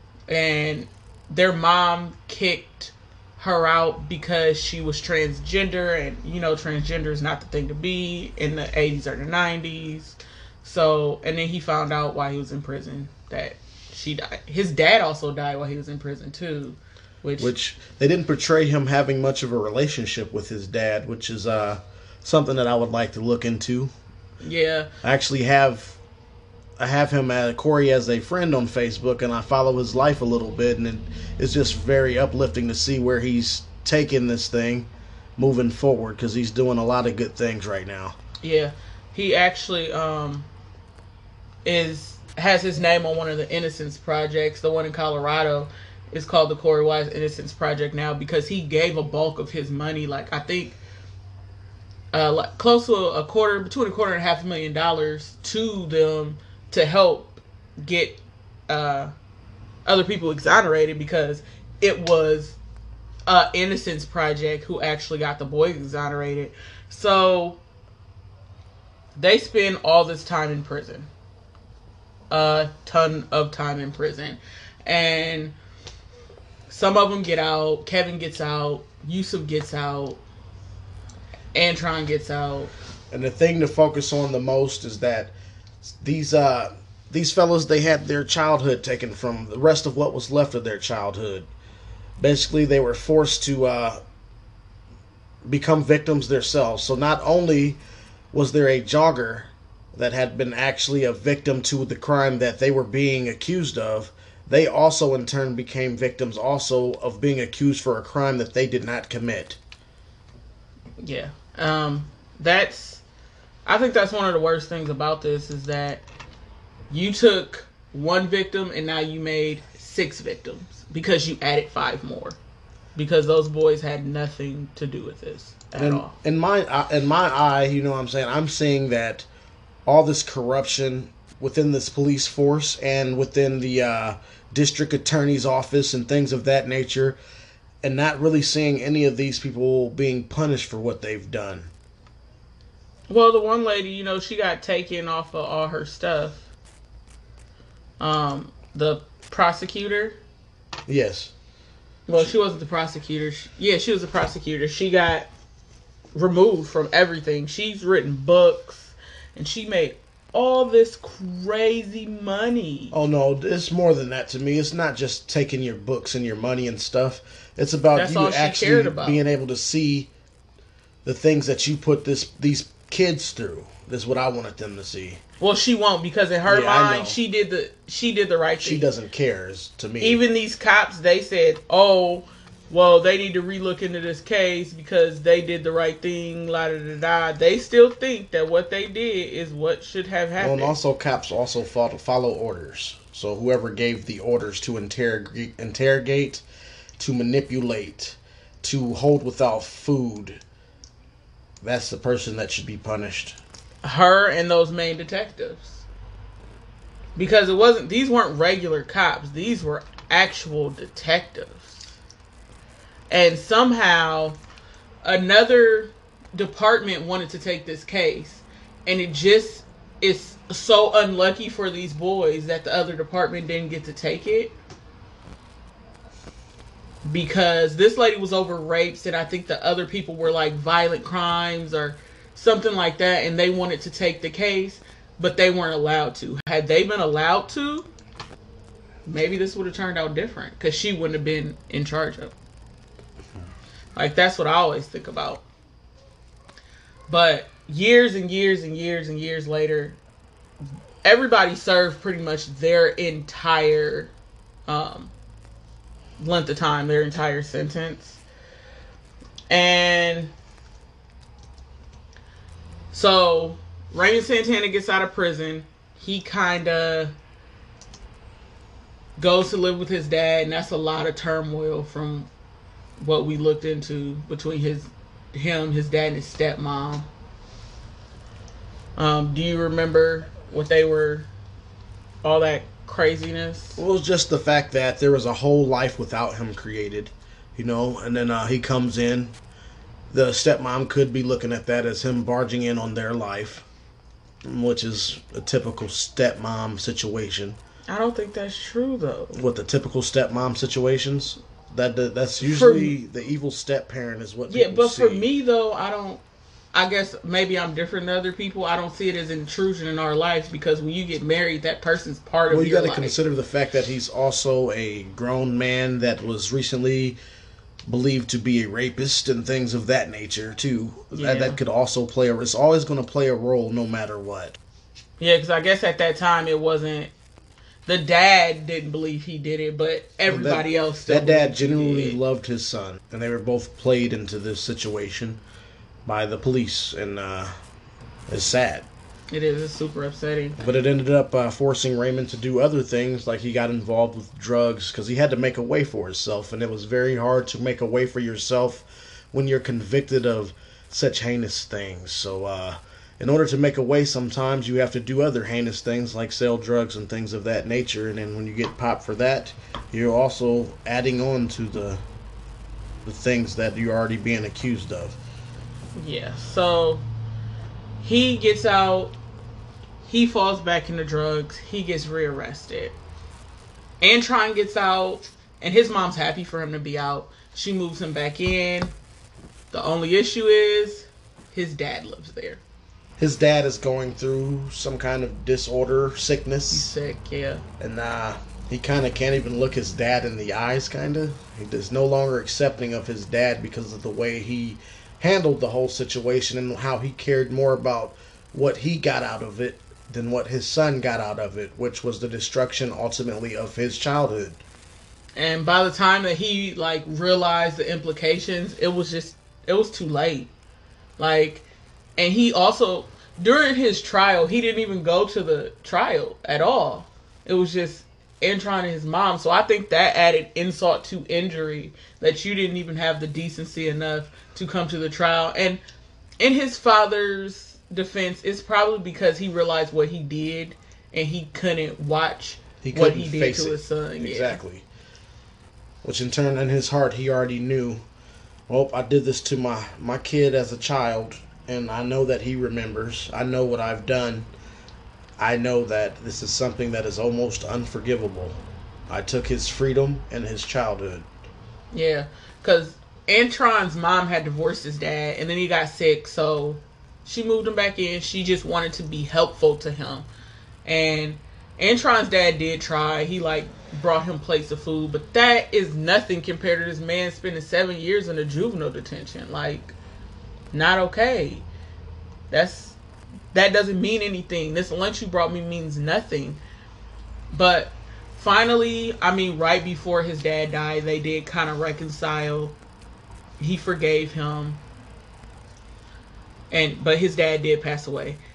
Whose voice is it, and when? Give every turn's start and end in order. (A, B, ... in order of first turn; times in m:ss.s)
0:00.3-0:17.5 A
0:17.4-0:23.9 B
0:24.4-0:24.9 A
0:25.0-0:26.0 B
0:26.8-0:38.2 B
0:38.4-0:40.5 A
0:41.6-0:50.8 A
0:52.1-0:59.1 A
0:59.8-1:02.6 A
1:03.3-1:07.6 A
1:09.2-1:11.1 A
1:12.3-1:15.5 A
1:16.7-1:20.2 A
1:21.5-1:22.7 A
1:23.1-1:31.5 B
1:32.2-1:34.0 B
1:35.4-1:37.8 B
1:38.3-1:49.6 B
1:51.0-1:53.0 A
1:53.6-1:56.0 A
1:56.9-2:02.4 A
2:03.0-2:06.1 A
2:05.7-2:09.3 B
2:09.8-2:17.2 B
2:17.8-2:21.7 B
2:23.1-2:26.5 A
2:28.0-2:30.2 A
2:30.9-2:31.3 B
2:32.1-2:35.3 A
2:36.1-2:42.9 A
2:42.9-2:50.1 B
2:47.9-2:49.2 A
2:51.0-2:55.2 B
2:55.4-2:58.8 A
2:56.4-2:57.2 B
2:58.6-3:00.2 B
3:00.0-3:10.7 A
3:10.4-3:16.4 B
3:17.0-3:20.4 B
3:21.6-3:23.4 B
3:23.8-3:25.8 A
3:27.2-3:31.9 A
3:33.1-3:34.4 A
3:35.0-3:44.6 A
3:47.0-3:57.9 A
3:59.0-4:02.3 A
4:04.0-4:05.4 A
4:07.1-4:10.0 A
4:11.0-4:14.1 A
4:14.7-4:15.1 A
4:16.2-4:18.2 A
4:19.5-4:20.3 A
4:22.9-4:27.1 A
4:29.2-4:32.3 A
4:33.0-4:37.1 A
4:39.0-4:41.3 A
4:42.2-4:43.8 A
4:43.8-4:49.4 B
4:50.1-4:53.6 B
4:54.4-4:57.6 B
4:57.9-4:59.4 A
4:59.3-5:05.2 B
5:02.4-5:02.9 A
5:04.5-5:06.2 A
5:06.7-5:13.2 A
5:12.5-5:17.2 B
5:17.8-5:24.6 B
5:21.1-5:21.6 A
5:25.2-5:27.1 A
5:27.8-5:32.2 A
5:30.3-5:35.4 B
5:36.0-5:37.5 B
5:38.3-5:38.9 B
5:39.3-5:40.6 A
5:40.6-6:02.0 B
6:03.0-6:05.2 B
6:05.9-6:07.0 A
6:08.0-6:09.1 A
6:10.0-6:13.0 A
6:14.0-6:18.9 A
6:19.7-6:22.6 A
6:23.2-6:26.9 B
6:26.7-6:27.6 A
6:27.8-6:44.6 B
6:45.4-6:50.5 A
6:51.2-6:51.6 A
6:52.2-7:05.8 A
7:06.4-7:14.6 A
7:12.8-7:14.8 B
7:16.0-7:18.0 B
7:18.7-7:24.5 B
7:25.4-7:31.2 B
7:31.9-7:40.3 A
7:40.8-7:49.9 A
7:50.7-7:51.6 A
7:52.5-7:53.0 A
7:53.5-7:56.6 A
7:57.5-8:02.8 A
8:03.6-8:04.8 A
8:06.7-8:08.4 A